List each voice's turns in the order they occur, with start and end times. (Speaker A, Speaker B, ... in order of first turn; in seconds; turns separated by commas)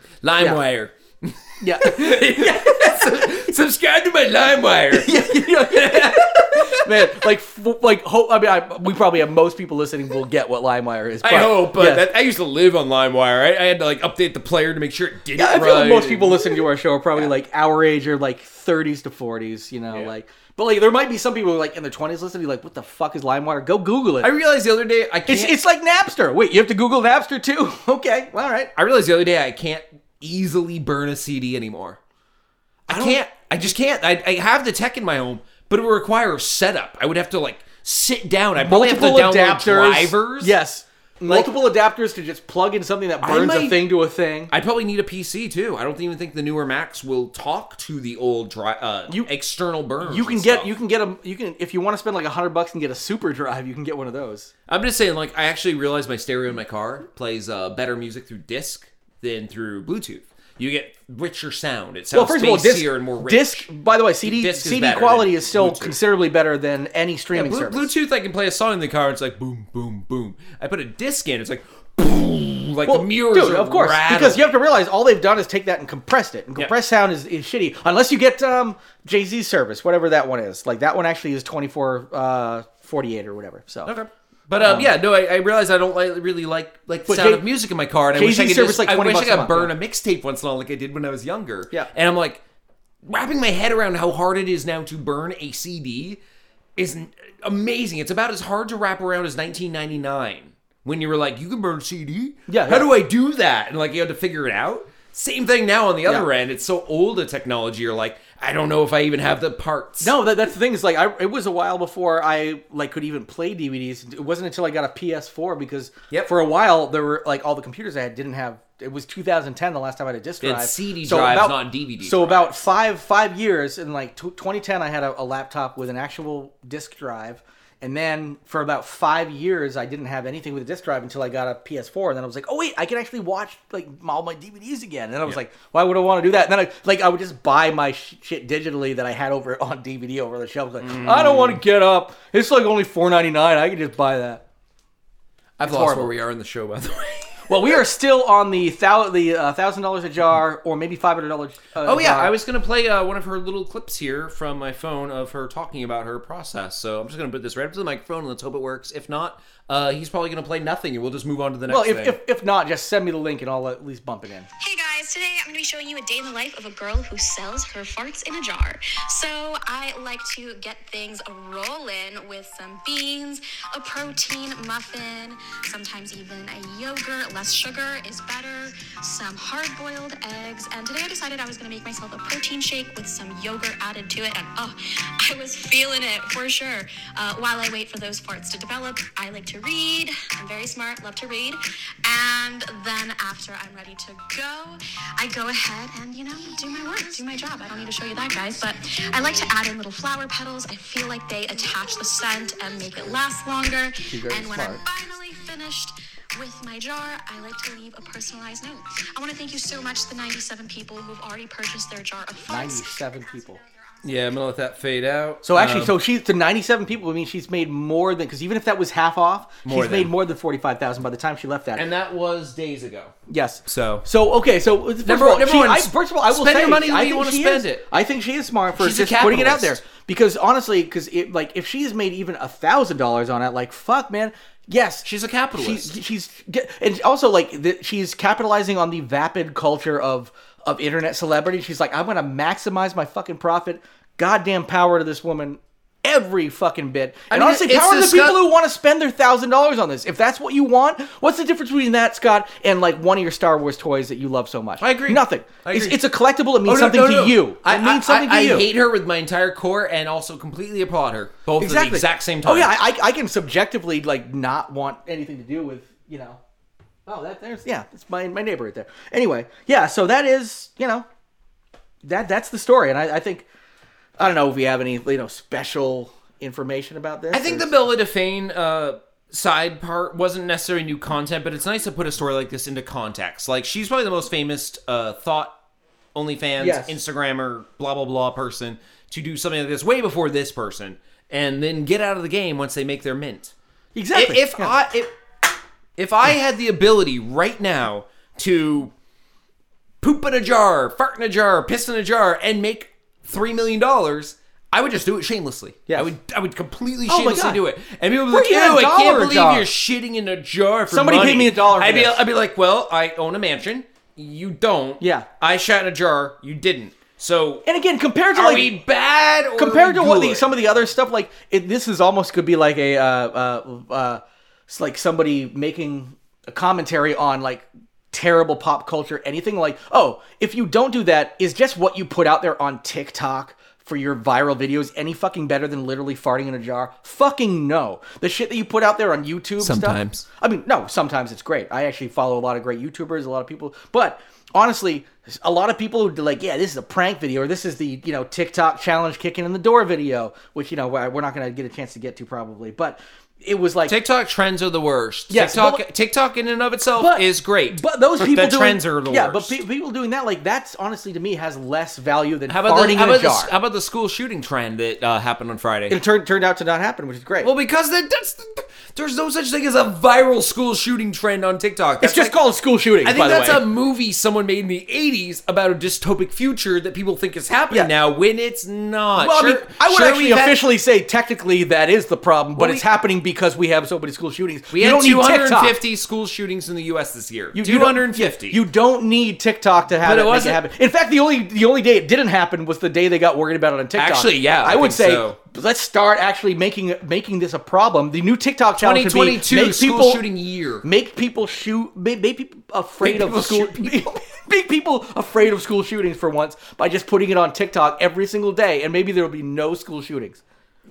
Speaker A: 0.2-7.1, Speaker B: 1.6-3.4, Speaker B: 4.9-12.1, Speaker A: 11.2-16.6, Speaker B: 15.3-24.3, Speaker A: 24.2-25.6, Speaker B: 25.3-28.7, Speaker A: 28.8-32.0, Speaker B: 32.9-33.2, Speaker A: 32.9-40.5, Speaker B: 38.6-44.5, Speaker A: 41.2-41.5, Speaker A: 43.2-43.8, Speaker A: 44.5-50.7, Speaker B: 50.0-54.5, Speaker A: 54.7-63.7, Speaker B: 62.1-67.9, Speaker A: 64.2-66.0, Speaker A: 67.3-74.5, Speaker B: 72.8-83.9, Speaker A: 83.8-92.4, Speaker B: 84.6-84.9, Speaker B: 87.1-87.4, Speaker B: 88.1-89.7, Speaker A: 93.0-96.2, Speaker A: 96.8-110.1, Speaker B: 102.5-102.9, Speaker B: 110.0-144.4, Speaker A: 120.4-122.5, Speaker A: 140.8-141.6, Speaker B: 145.6-146.1, Speaker A: 145.6-147.8, Speaker B: 147.5-152.3, Speaker A: 151.8-162.2, Speaker B: 161.7-164.5, Speaker C: 164.6-214.0, Speaker B: 204.1-204.8, Speaker B: 212.5-213.6, Speaker A: 214.0-215.9, Speaker B: 215.4-221.8, Speaker A: 219.6-220.1, Speaker A: 221.7-223.1, Speaker B: 223.3-258.7, Speaker A: 223.7-224.1, Speaker A: 225.0-227.8, Speaker A: 228.8-229.8, Speaker A: 235.0-235.9, Speaker A: 247.3-248.5, Speaker A: 254.8-256.0, Speaker A: 256.6-262.7, Speaker B: 261.6-266.4, Speaker B: 267.1-271.1, Speaker B: 272.0-273.5, Speaker B: 274.2-277.7, Speaker A: 277.3-285.6, Speaker A: 286.1-293.5, Speaker B: 286.6-286.9, Speaker B: 293.9-294.8, Speaker A: 294.1-295.1, Speaker A: 296.0-298.9, Speaker A: 300.0-317.6, Speaker B: 305.9-306.1, Speaker B: 307.1-307.6, Speaker B: 308.3-309.7, Speaker B: 310.9-312.2, Speaker B: 315.0-315.3, Speaker B: 317.6-318.8, Speaker A: 318.3-320.5, Speaker B: 319.6-353.9, Speaker A: 339.6-340.2, Speaker A: 353.9-359.6, Speaker B: 355.3-355.8, Speaker B: 356.9-363.5, Speaker A: 362.5-366.0, Speaker B: 365.9-367.5, Speaker A: 367.4-372.3, Speaker B: 372.0-373.6, Speaker A: 373.0-380.6, Speaker B: 379.2-385.8, Speaker A: 382.6-382.8, Speaker A: 384.7-388.6, Speaker B: 387.5-400.2, Speaker A: 390.0-390.6, Speaker A: 393.9-395.4, Speaker A: 398.8-400.8, Speaker B: 400.8-410.4, Speaker A: 403.0-404.1